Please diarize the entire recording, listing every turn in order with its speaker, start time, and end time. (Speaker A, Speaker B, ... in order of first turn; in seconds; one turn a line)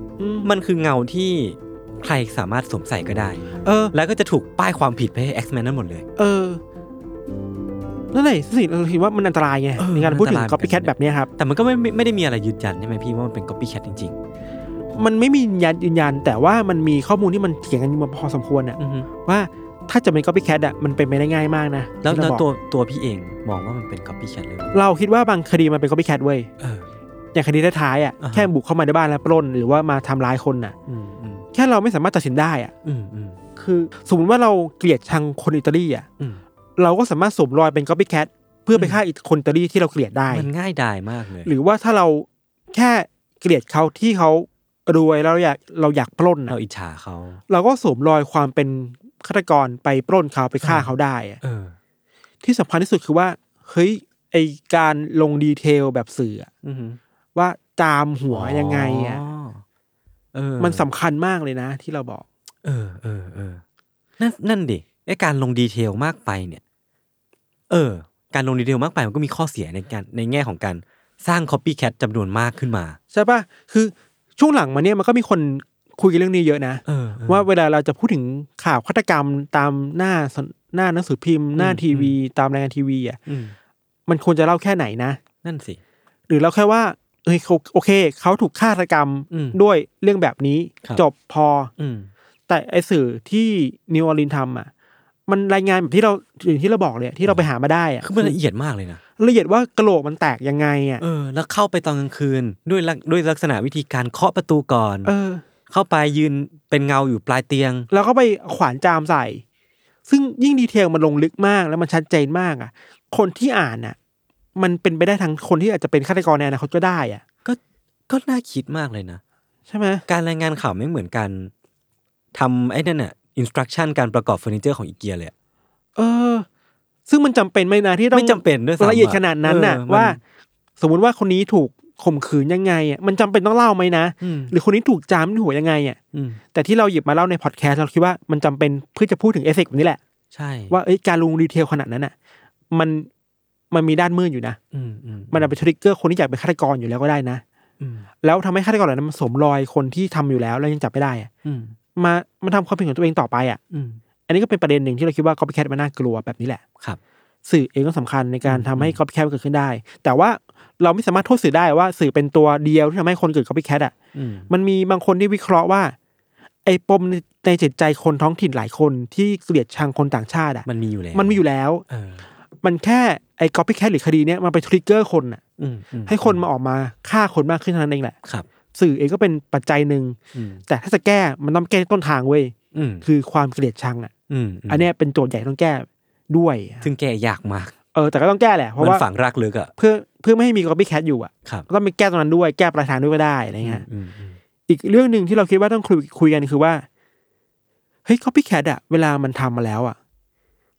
Speaker A: 0.2-0.5
Speaker B: 0.4-6.0
Speaker A: 3.6-3.9
Speaker A: 6.2-6.6
Speaker A: 8.1-11.3
Speaker B: 9.8-14.2
Speaker A: 14.9-22.4
Speaker B: 18.8-19.1
Speaker B: 22.0-24.7
Speaker A: 24.7-26.5
Speaker B: 26.6-26.9
Speaker A: 27.3-30.8
Speaker B: 28.2-28.5
Speaker B: 30.9-31.4
Speaker A: 31.5-32.7
Speaker B: 32.8-33.4
Speaker A: 33.5-36.1
Speaker A: 36.8-40.5
Speaker B: 38.7-39.0
Speaker B: 40.3-41.5
Speaker A: 41.4-46.5
Speaker B: 46.5-47.4
Speaker A: 47.5-51.4
Speaker B: 50.6-51.8
Speaker A: 52.4-56.5
Speaker B: 56.6-57.0
Speaker A: 57.3-59.2
Speaker B: 58.3-59.6
Speaker B: 60.3-60.8
Speaker A: 60.6-62.2
Speaker B: 62.6-63.6
Speaker B: 64.2-66.6
Speaker B: 67.7-73.0
Speaker A: 73.1-83.2
Speaker B: 76.8-77.5
Speaker B: 81.5-82.2
Speaker B: 83.3-83.5
Speaker A: 84.1-85.2
Speaker B: 85.4-85.8
Speaker A: 86.3-91.7
Speaker B: 89.3-89.6
Speaker B: 91.8-92.1
Speaker A: 92.5-94.7
Speaker A: 95.3-98.3
Speaker B: 98.0-99.0
Speaker A: 99.2-101.0
Speaker B: 101.0-105.1
Speaker A: 105.0-105.4
Speaker B: 105.7-107.9
Speaker A: 107.9-109.4
Speaker A: 110.1-114.0
Speaker A: 114.5-117.2
Speaker B: 117.4-119.2
Speaker A: 119.7-120.0
Speaker B: 120.1-121.5
Speaker B: 122.3-125.3
Speaker A: 126.0-126.5
Speaker A: 127.1-130.2
Speaker B: 128.1-130.2
Speaker A: 130.8-136.0
Speaker B: 134.2-134.5
Speaker B: 136.1-136.4
Speaker A: 136.5-140.0
Speaker B: 140.3-140.8
Speaker A: 140.7-142.1
Speaker A: 142.7-143.1
Speaker A: 143.7-144.6
Speaker B: 144.7-145.6
Speaker A: 145.3-147.4
Speaker B: 147.8-148.1
Speaker A: 148.2-151.3
Speaker B: 151.4-151.8
Speaker A: 151.9-153.6
Speaker B: 153.7-154.0
Speaker A: 154.3-156.6
Speaker A: 157.4-163.9
Speaker B: 158.4-159.0
Speaker B: 164.1-164.5
Speaker A: 164.5-165.9
Speaker A: 166.6-171.8
Speaker B: 170.7-172.2
Speaker A: 172.6-175.4
Speaker B: 175.6-176.4
Speaker A: 176.1-178.2
Speaker A: 178.7-184.1
Speaker B: 180.3-180.6
Speaker B: 182.7-183.0
Speaker B: 184.3-184.9
Speaker A: 184.7-186.9
Speaker B: 186.8-187.7
Speaker A: 187.9-189.0
Speaker B: 188.8-189.7
Speaker A: 189.8-193.8
Speaker B: 193.6-194.4
Speaker A: 194.7-196.8
Speaker A: 198.1-200.0